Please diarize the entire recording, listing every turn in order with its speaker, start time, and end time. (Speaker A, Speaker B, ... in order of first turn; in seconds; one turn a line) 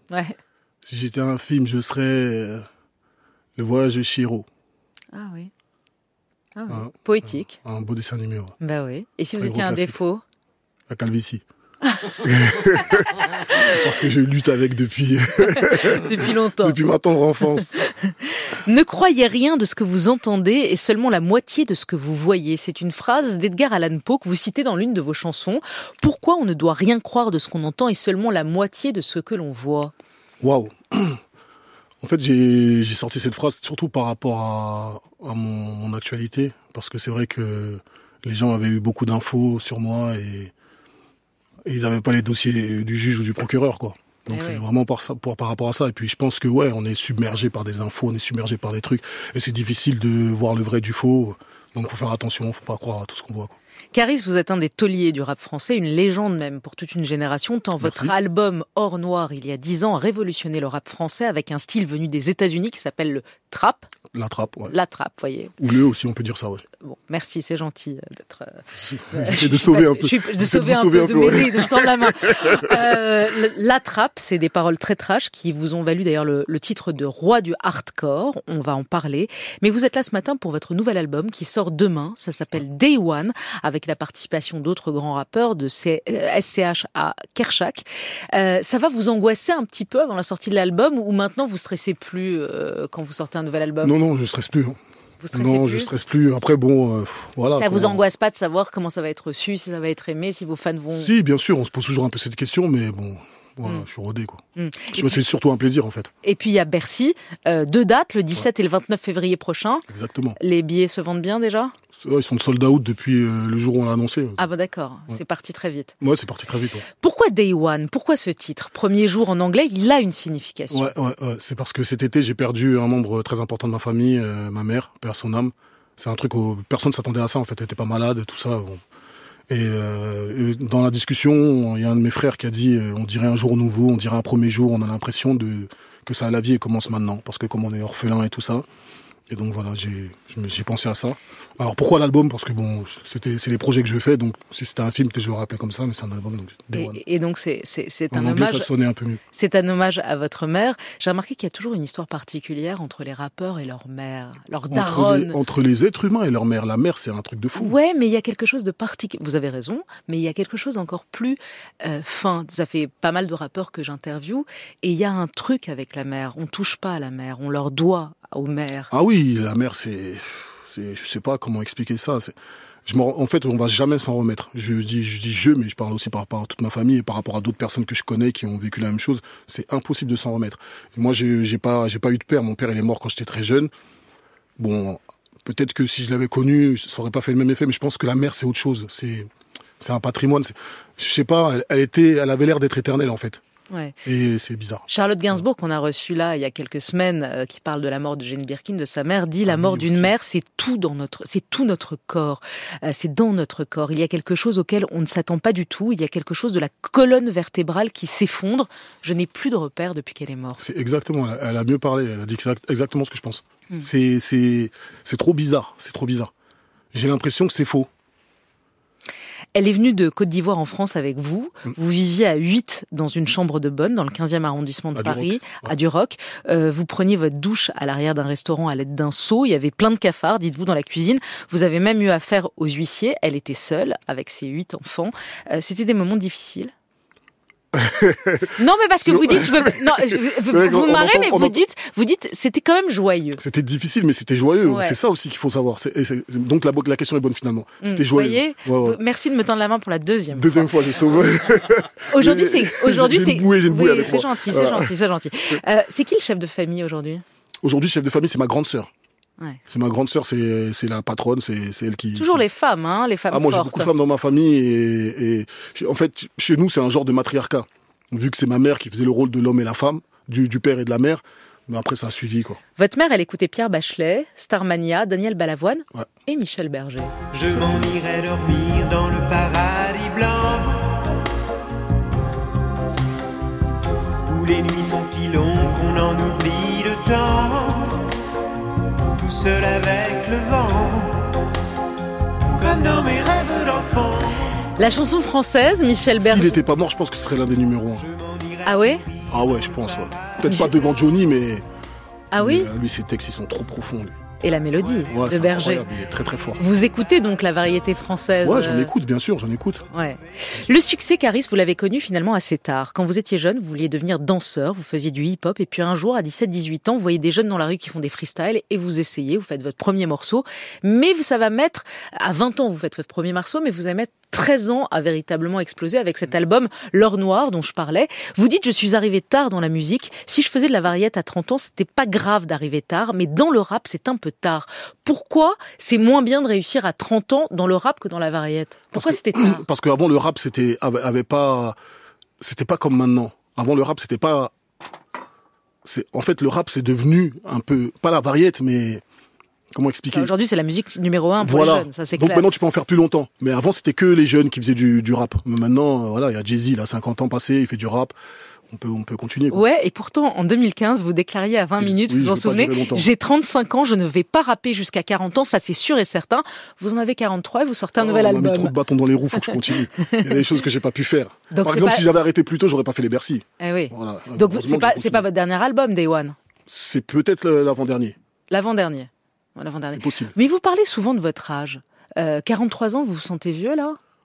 Speaker A: 0.1-0.4
Speaker B: 0.8-2.6
Speaker B: 3.5-4.5
Speaker A: 5.1-5.5
Speaker A: 6.5-7.5
Speaker B: 6.7-8.5
Speaker A: 8.6-10.2
Speaker B: 9.4-10.0
Speaker B: 10.9-11.4
Speaker B: 12.1-17.7
Speaker A: 13.3-13.8
Speaker A: 15.6-16.8
Speaker A: 17.7-29.9
Speaker B: 30.4-31.2
Speaker B: 32.0-40.5
Speaker B: 41.6-53.5
Speaker A: 44.3-44.6
Speaker A: 53.9-63.9
Speaker B: 57.8-58.1
Speaker B: 64.1-64.7
Speaker A: 64.7-65.5
Speaker B: 65.6-66.6
Speaker A: 66.8-93.9
Speaker B: 68.8-72.7
Speaker B: 93.8-94.8
Speaker A: 95.2-96.0
Speaker B: 95.3-98.0
Speaker A: 97.5-101.1
Speaker B: 100.9-104.4
Speaker A: 104.5-105.2
Speaker B: 104.9-106.1
Speaker A: 106.2-109.8
Speaker B: 109.9-110.4
Speaker A: 110.4-111.7
Speaker B: 112.0-114.4
Speaker A: 114.4-115.9
Speaker B: 116.0-116.8
Speaker A: 117.0-120.9
Speaker B: 120.7-128.8
Speaker B: 129.5-138.6
Speaker B: 139.3-147.0
Speaker A: 146.7-148.7
Speaker B: 148.1-149.2
Speaker A: 149.3-155.4
Speaker B: 154.7-157.8
Speaker A: 157.6-168.9
Speaker B: 168.9-172.3
Speaker B: 172.8-183.7
Speaker B: 184.6-193.4
Speaker A: 193.7-193.9
Speaker B: 194.0-195.4
Speaker A: 194.9-210.6
Speaker B: 199.4-200.1
Speaker B: 210.6-216.3
Speaker B: 216.9-217.9
Speaker A: 219.5-236.7
Speaker B: 224.9-225.7
Speaker B: 237.7-241.6
Speaker A: 238.6-243.4
Speaker B: 243.4-249.0
Speaker A: 244.6-245.0
Speaker A: 247.8-250.7
Speaker B: 250.3-254.9
Speaker A: 252.0-257.2
Speaker B: 257.6-258.9
Speaker B: 259.7-262.4
Speaker A: 262.1-263.9
Speaker B: 263.3-272.6
Speaker A: 272.8-277.1
Speaker C: 277.3-281.1
Speaker B: 277.4-277.9
Speaker C: 284.2-288.1
Speaker C: 289.1-291.4
Speaker C: 292.5-294.4
Speaker A: 294.8-296.6
Speaker B: 296.2-298.1
Speaker C: 298.1-298.6
Speaker A: 298.6-299.0
Speaker B: 299.3-301.6
Speaker A: 300.4-300.7
Speaker A: 302.3-302.7
Speaker B: 302.4-304.1
Speaker A: 304.4-305.9
Speaker B: 305.1-306.6
Speaker A: 306.6-308.9
Speaker B: 308.4-309.8
Speaker A: 309.9-339.6
Speaker B: 338.9-341.8
Speaker B: 342.4-344.5
Speaker B: 345.8-349.0
Speaker B: 349.7-350.3
Speaker A: 350.1-352.5
Speaker B: 351.4-358.1
Speaker B: 358.7-359.6
Speaker A: 359.5-368.8
Speaker B: 361.8-363.1
Speaker B: 368.0-375.2
Speaker A: 369.3-370.4
Speaker A: 371.5-372.2
Speaker A: 373.6-376.4
Speaker B: 376.7-378.1
Speaker A: 378.5-384.0
Speaker B: 379.9-380.3